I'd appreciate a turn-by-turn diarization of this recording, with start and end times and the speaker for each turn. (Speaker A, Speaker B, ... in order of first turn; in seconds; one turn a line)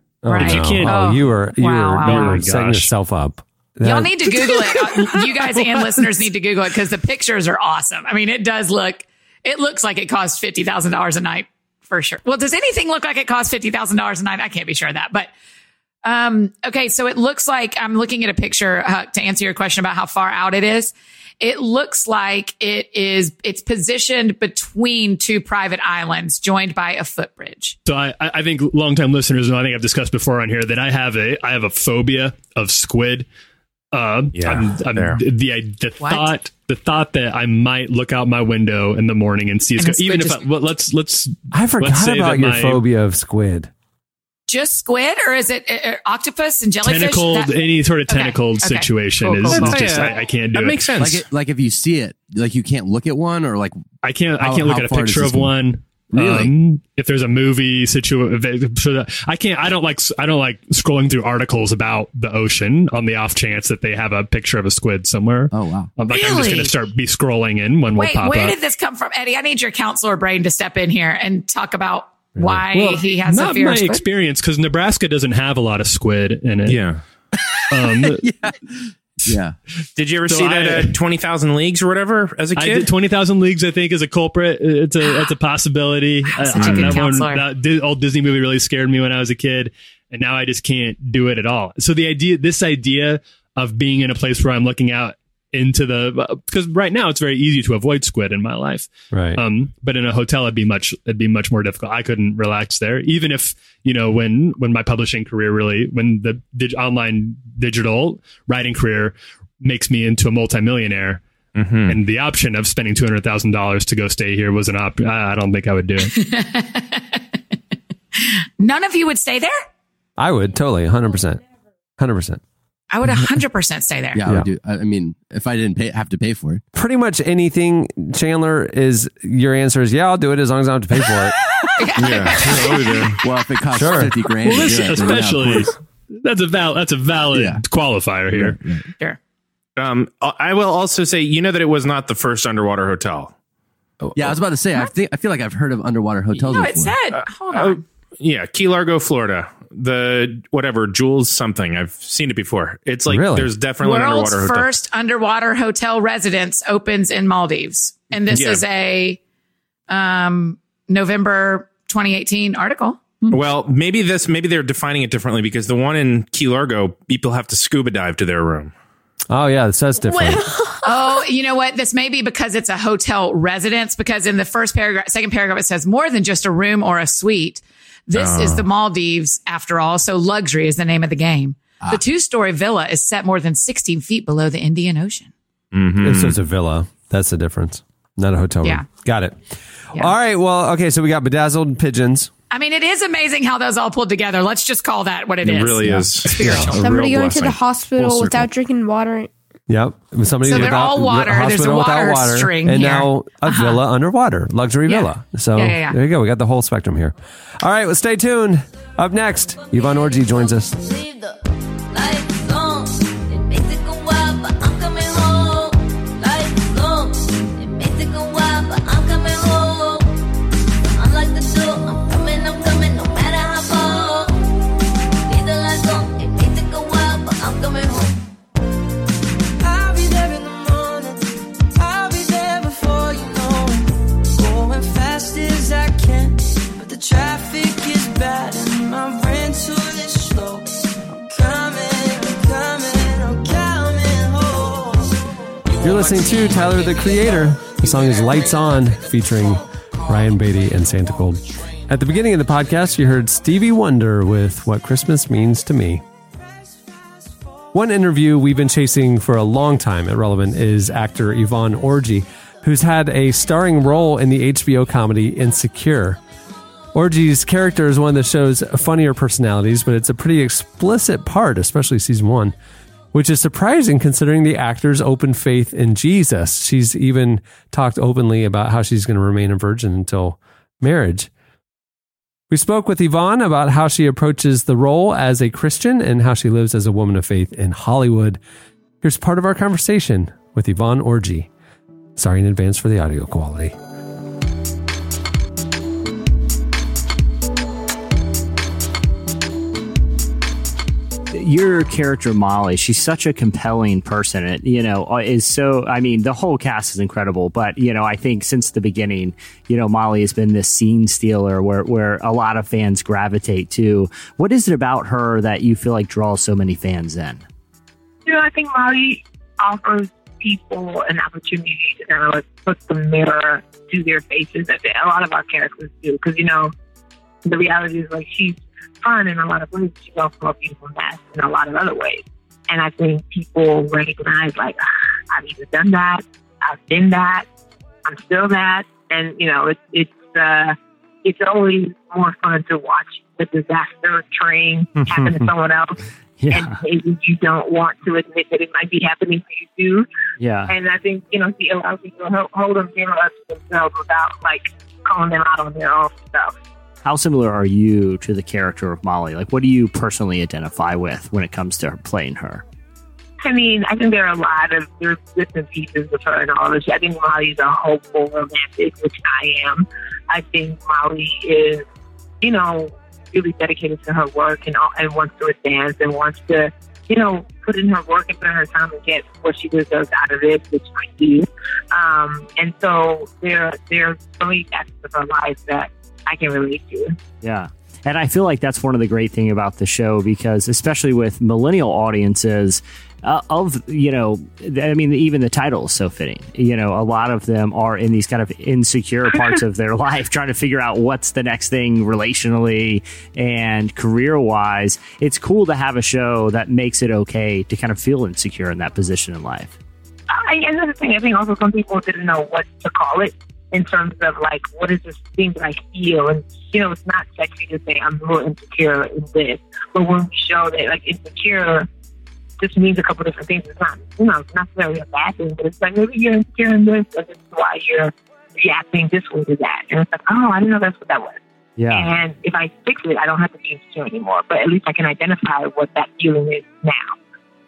Speaker A: 0.2-4.4
Speaker B: 0.3-2.4
Speaker C: 0.4-1.1
Speaker C: 2.0-2.9
Speaker B: 3.8-15.3
Speaker B: 16.0-27.8
Speaker C: 27.9-33.3
Speaker C: 33.9-42.8
Speaker D: 34.4-35.2
Speaker B: 36.0-36.3
Speaker B: 39.8-40.4
Speaker A: 41.5-43.7
Speaker B: 44.5-50.1
Speaker C: 46.8-50.9
Speaker D: 49.5-51.2
Speaker E: 51.0-53.8
Speaker C: 54.0-68.6
Speaker E: 54.4-55.6
Speaker E: 56.1-56.5
Speaker E: 65.5-65.9
Speaker B: 66.1-66.7
Speaker B: 67.9-74.0
Speaker C: 72.7-76.8
Speaker D: 76.7-77.0
Speaker C: 77.7-78.2
Speaker E: 77.9-79.6
Speaker D: 80.0-82.9
Speaker C: 80.3-81.0
Speaker C: 82.6-111.2
Speaker B: 85.1-85.3
Speaker B: 86.3-87.5
Speaker D: 86.6-87.0
Speaker A: 99.1-99.4
Speaker D: 111.5-112.0
Speaker C: 111.9-116.2
Speaker B: 116.2-117.2
Speaker B: 118.2-119.6
Speaker A: 120.2-121.4
Speaker A: 122.0-122.4
Speaker B: 122.9-124.2
Speaker E: 124.1-126.6
Speaker A: 126.7-131.4
Speaker B: 131.8-133.0
Speaker D: 132.0-133.2
Speaker E: 132.1-135.7
Speaker A: 133.7-134.1
Speaker C: 134.4-138.6
Speaker E: 137.3-137.6
Speaker E: 138.3-138.8
Speaker D: 139.8-143.3
Speaker A: 144.0-144.4
Speaker E: 144.2-147.0
Speaker B: 146.4-147.8
Speaker D: 147.2-154.7
Speaker A: 153.1-153.5
Speaker B: 153.8-159.2
Speaker D: 158.3-158.6
Speaker B: 159.9-163.4
Speaker D: 163.3-168.7
Speaker A: 169.3-170.6
Speaker F: 170.1-171.1
Speaker B: 170.8-185.3
Speaker D: 178.2-178.7
Speaker D: 185.7-186.4
Speaker A: 186.0-189.4
Speaker A: 189.9-192.3
Speaker B: 192.5-196.8
Speaker D: 195.4-197.6
Speaker A: 195.9-196.7
Speaker F: 196.8-199.3
Speaker E: 198.0-198.4
Speaker A: 199.7-210.8
Speaker B: 200.4-203.8
Speaker B: 204.9-206.0
Speaker G: 209.7-220.1
Speaker G: 220.9-224.6
Speaker G: 225.3-228.2
Speaker A: 245.8-256.0
Speaker A: 257.7-266.2
Speaker A: 266.9-272.6
Speaker A: 273.1-281.3
Speaker A: 282.5-288.4
Speaker A: 289.0-291.5
Speaker A: 292.2-293.8
Speaker H: 301.3-317.4
Speaker I: 318.3-326.7
Speaker I: 327.4-334.8
Speaker I: 335.3-337.5
Speaker I: 338.1-350.1
Speaker H: 345.0-345.5
Speaker H: 346.4-346.8
Speaker H: 350.4-350.7
Speaker I: 350.7-356.5
Speaker H: 357.0-362.6
Speaker I: 363.4-371.9
Speaker I: 372.4-387.2
Speaker H: 387.4-409.7
Speaker I: 410.3-421.9
Speaker I: 422.6-431.4
Speaker H: 431.8-432.1
Speaker I: 431.9-437.1